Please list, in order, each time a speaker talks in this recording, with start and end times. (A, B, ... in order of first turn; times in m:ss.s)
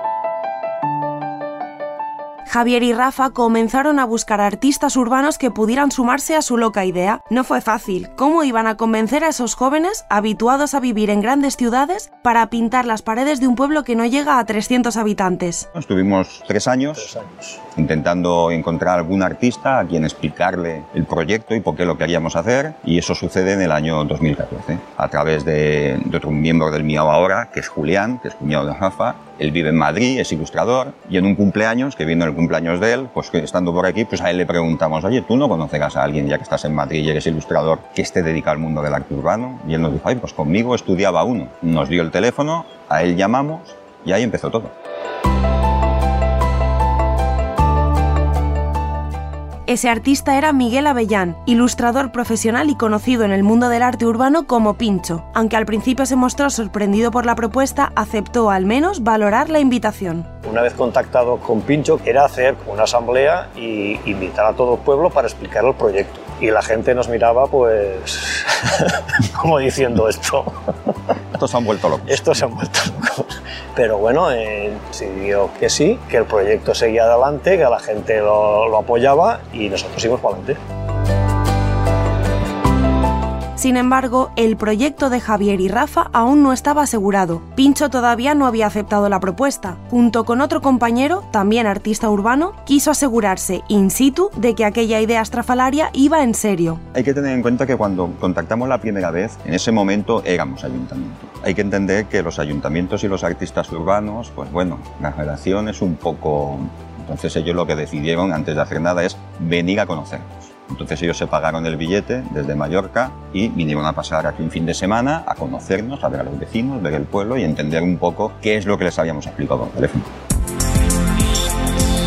0:02.5-0:15.7 A
0:15.7-0:17.1 B
0:17.0-0:17.6 C
0:17.7-0:44.7 B
0:49.7-1:00.3 A
1:00.4-1:10.9 C
1:11.3-1:12.3 B
1:12.0-1:20.6 C
1:23.6-1:36.8 A
1:36.9-2:00.1 B